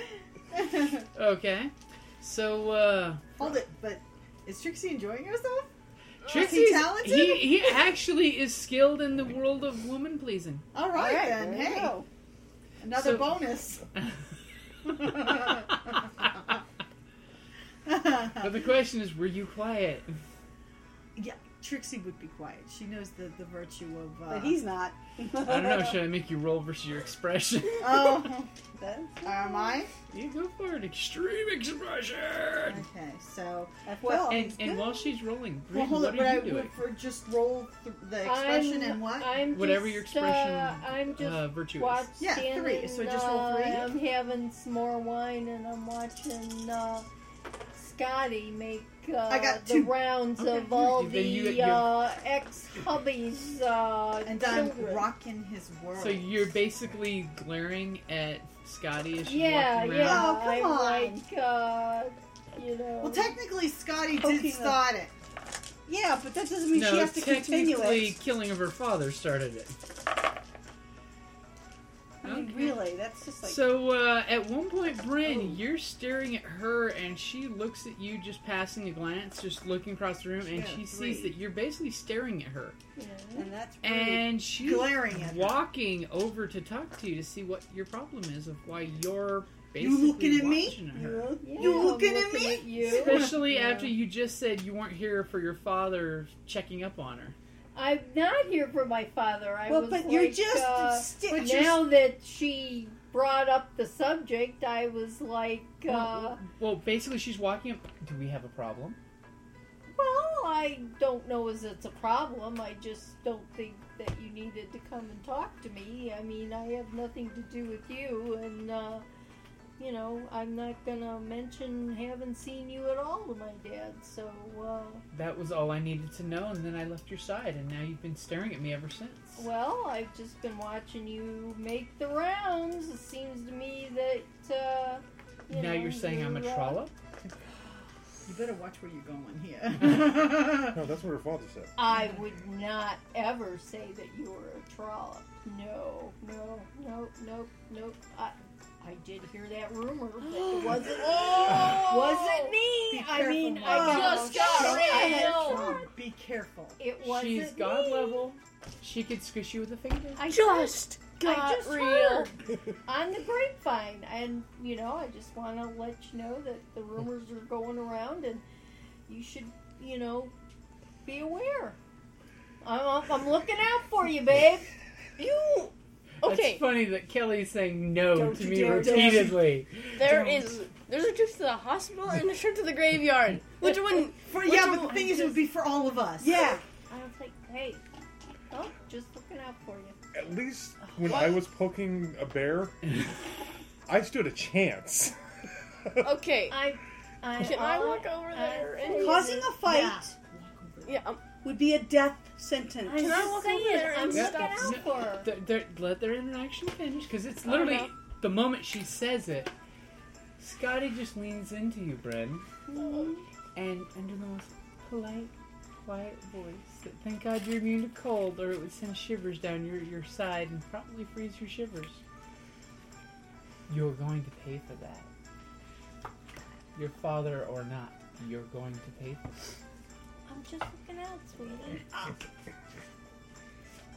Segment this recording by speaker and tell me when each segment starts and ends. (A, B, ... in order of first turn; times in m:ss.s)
0:00.5-0:01.0 A
0:01.1-0:03.2 B
0:03.4-0:05.7 A
0:06.2-0:10.6 B
0:06.3-0:07.7 A
0:10.7-0:12.0 A
0:10.9-0:12.0 C
0:12.8-0:13.8 A
0:12.9-0:13.4 B
0:14.8-0:16.1 A
0:17.8-0:18.5 A
0:18.4-0:20.2 B
0:21.2-0:24.6 A
0:24.3-0:26.0 C
0:25.4-0:28.3 B
0:27.8-0:28.5 A
0:28.8-0:29.8 C
0:29.2-0:29.9 A
0:30.1-0:32.8 B
0:32.6-0:34.8 A
0:33.8-0:34.6 C
0:34.3-0:36.7 B
0:35.7-0:39.4 A
0:38.2-0:47.1 D
0:39.5-0:42.1 B
0:42.2-0:43.9 A
0:47.7-0:55.1 D
0:49.3-0:50.6 A
0:50.6-0:52.0 B
0:54.2-0:56.4 A
0:56.0-1:00.3 B
0:59.2-1:03.4 D
1:00.0-1:01.2 A
1:03.0-1:05.1 A
1:04.1-1:04.9 C
1:05.8-1:08.2 C
1:06.7-1:09.8 B
1:12.2-1:12.8 B
1:12.2-1:13.6 C
1:13.4-1:22.8 B
1:20.4-1:21.3 A
1:23.0-1:23.5 D
1:23.4-1:24.0 C
1:23.8-1:25.6 A
1:23.8-1:31.3 B
1:29.8-1:30.9 A
1:30.9-1:32.1 C
1:31.4-1:33.4 D
1:31.5-1:33.3 A
1:32.8-1:37.4 B
1:37.7-1:46.4 D
1:39.7-1:41.6 C
1:40.6-1:41.8 A
1:45.8-1:49.0 B
1:49.9-1:59.0 D
1:59.8-2:05.0 D
2:05.1-2:09.4 B
2:09.4-2:16.9 D
2:15.5-2:16.9 B
2:18.2-2:20.8 A
2:20.6-2:21.7 E
2:21.8-2:35.9 D
2:30.3-2:31.2 A
2:30.7-2:32.6 F
2:32.9-2:36.8 A
2:33.6-2:35.7 F
2:33.7-2:35.4 C
2:36.8-2:38.3 D
2:37.0-2:40.2 B
2:40.2-2:48.4 D
2:40.2-2:42.3 F
2:49.1-2:50.3 D
2:51.0-2:51.8 D
2:52.6-2:55.7 D
2:55.2-2:55.5 F
2:56.2-3:00.0 B
2:56.2-2:56.7 F
2:58.1-2:59.4 C
2:58.3-2:59.4 A
2:59.9-3:04.9 F
3:04.2-3:06.4 A
3:04.6-3:07.8 D
3:06.2-3:06.6 C
3:08.5-3:10.0 D
3:10.1-3:12.8 E
3:11.1-3:11.4 F
3:13.9-3:15.1 E
3:16.0-3:16.6 F
3:16.5-3:19.6 D
3:17.4-3:19.3 F
3:18.9-3:20.1 C
3:19.2-3:21.0 A
3:20.8-3:21.2 F
3:21.4-3:23.2 C
3:22.8-3:25.3 D
3:23.0-3:25.0 F
3:24.1-3:29.5 B
3:27.4-3:27.9 F
3:30.4-3:32.4 B
3:32.7-3:33.2 D
3:32.8-3:33.1 F
3:33.5-3:35.3 B
3:35.8-3:42.0 B
3:43.7-3:45.1 B
3:46.7-3:49.5 B
3:50.3-3:52.2 D